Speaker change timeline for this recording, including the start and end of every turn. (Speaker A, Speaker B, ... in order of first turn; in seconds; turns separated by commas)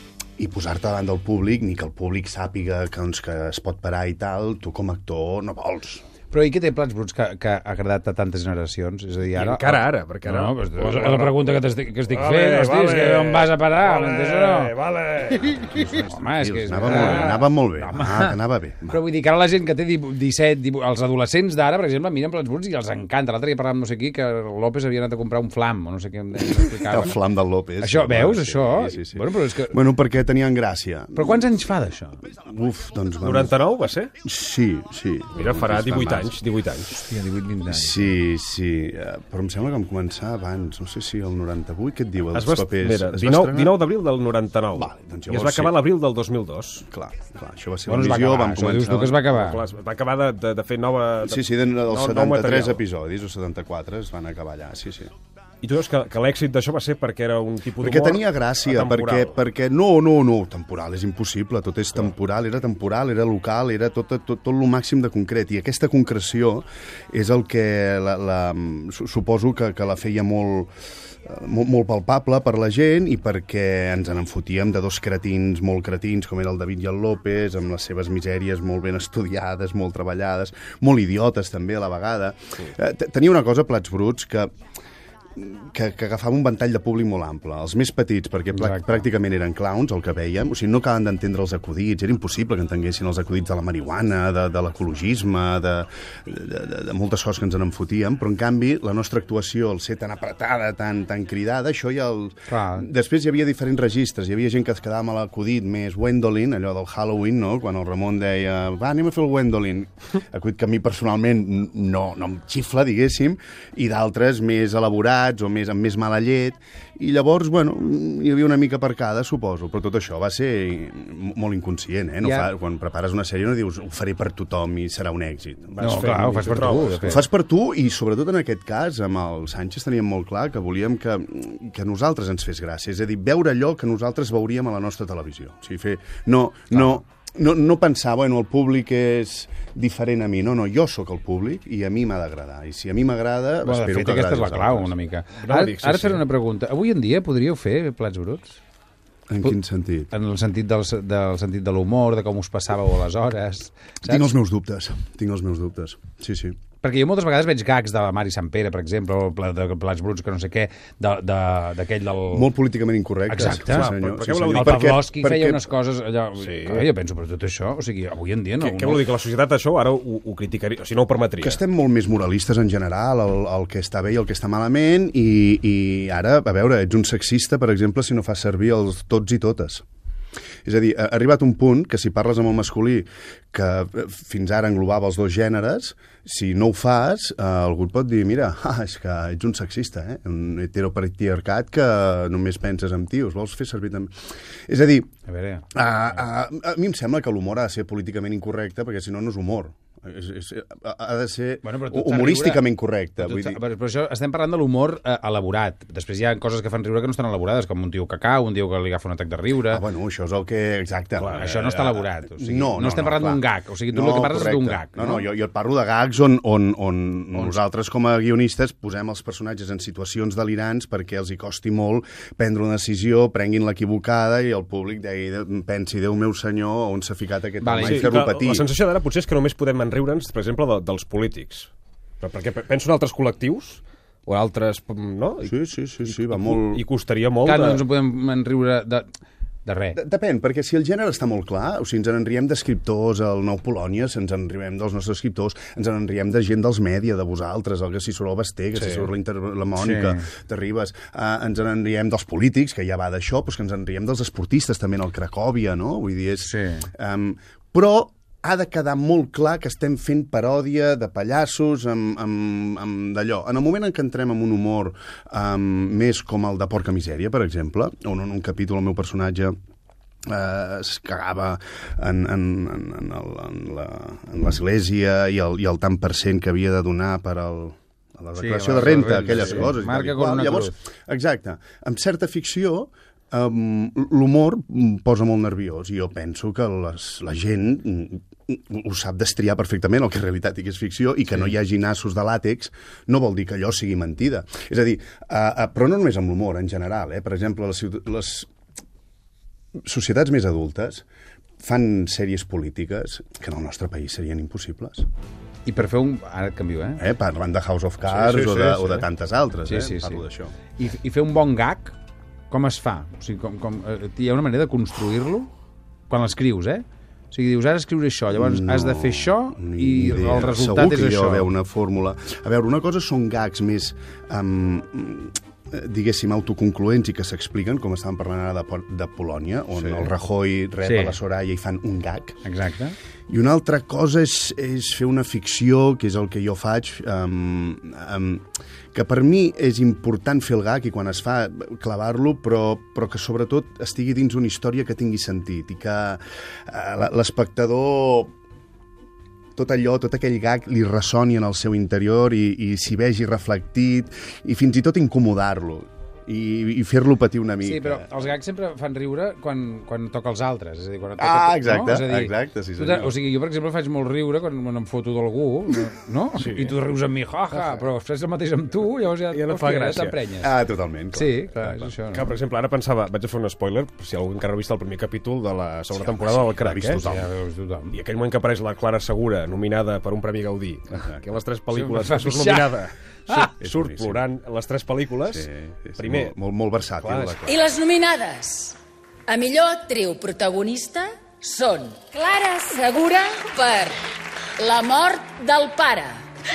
Speaker A: 0.4-6.0, Speaker B: 6.3-14.7, Speaker C: 9.4-11.6, Speaker C: 12.1-15.7, Speaker B: 15.5-18.4, Speaker A: 15.6-19.0, Speaker C: 16.9-17.4, Speaker B: 18.9-27.2, Speaker A: 26.8-31.6, Speaker B: 27.8-29.8, Speaker B: 31.2-32.2, Speaker A: 32.2-33.6, Speaker C: 33.2-34.1, Speaker A: 34.2-36.4, Speaker C: 35.4-37.0, Speaker B: 36.9-38.2, Speaker A: 37.7-43.9, Speaker C: 42.3-46.9, Speaker A: 44.7-45.8, Speaker A: 46.9-49.2, Speaker B: 47.9-49.6, Speaker C: 48.0-52.8, Speaker A: 51.2-55.1, Speaker C: 55.6-59.4, Speaker A: 57.8-70.7, Speaker A: 71.2-84.5, Speaker A: 85.4-126.1, Speaker B: 88.5-89.0, Speaker B: 102.5-102.9, Speaker B: 122.2-122.5, Speaker C: 125.7-127.2, Speaker B: 125.8-127.2, Speaker A: 127.0-144.9, Speaker B: 136.7-137.0, Speaker B: 143.6-148.6, Speaker C: 145.4-146.2, Speaker A: 149.3-150.1, Speaker B: 150.1-154.3, Speaker A: 154.0-156.6, Speaker B: 156.8-162.5, Speaker A: 162.3-165.7, Speaker B: 163.3-163.9, Speaker C: 163.7-165.0, Speaker B: 164.5-169.0, Speaker C: 166.4-166.9, Speaker C: 168.6-171.6, Speaker A: 171.4-179.8, Speaker A: 180.7-194.1, Speaker A: 194.7-195.1, Speaker B: 195.3-195.7, Speaker A: 195.7-203.6, Speaker B: 201.6-202.7, Speaker B: 203.2-209.8, Speaker A: 209.7-228.7, Speaker C: 211.2-211.5, Speaker B: 211.3-215.3, Speaker B: 227.6-228.1, Speaker C: 227.8-231.7, Speaker C: 232.2-235.5, Speaker A: 235.4-236.8, Speaker C: 236.1-237.8, Speaker B: 237.4-239.1, Speaker B: 239.7-240.0, Speaker A: 239.9-269.6, Speaker C: 248.8-249.1, Speaker B: 249.8-250.3, Speaker B: 256.4-256.9, Speaker A: 270.3-298.5, Speaker B: 278.4-280.7, Speaker A: 299.8-301.1, Speaker A: 301.6-305.1, Speaker B: 305.7-307.0, Speaker A: 307.0-310.5, Speaker C: 308.1-309.0, Speaker B: 309.7-310.2, Speaker B: 310.8-312.0, Speaker B: 312.5-315.5, Speaker B: 316.1-321.5, Speaker A: 318.3-332.4, Speaker B: 330.8-331.2, Speaker B: 332.4-333.0, Speaker A: 333.3-348.3, Speaker A: 349.6-358.1, Speaker B: 357.6-370.5, Speaker A: 361.2-363.1, Speaker C: 366.4-366.8, Speaker C: 369.3-370.2, Speaker A: 370.4-371.9, Speaker B: 371.1-372.3, Speaker C: 372.1-377.2, Speaker A: 376.0-377.2, Speaker B: 376.9-378.0, Speaker C: 377.9-385.5, Speaker A: 380.9-381.2, Speaker B: 381.7-382.7, Speaker A: 383.6-384.2, Speaker A: 385.3-387.6, Speaker C: 386.0-386.4, Speaker C: 387.0-387.4, Speaker D: 387.4-394.0, Speaker D: 394.6-396.3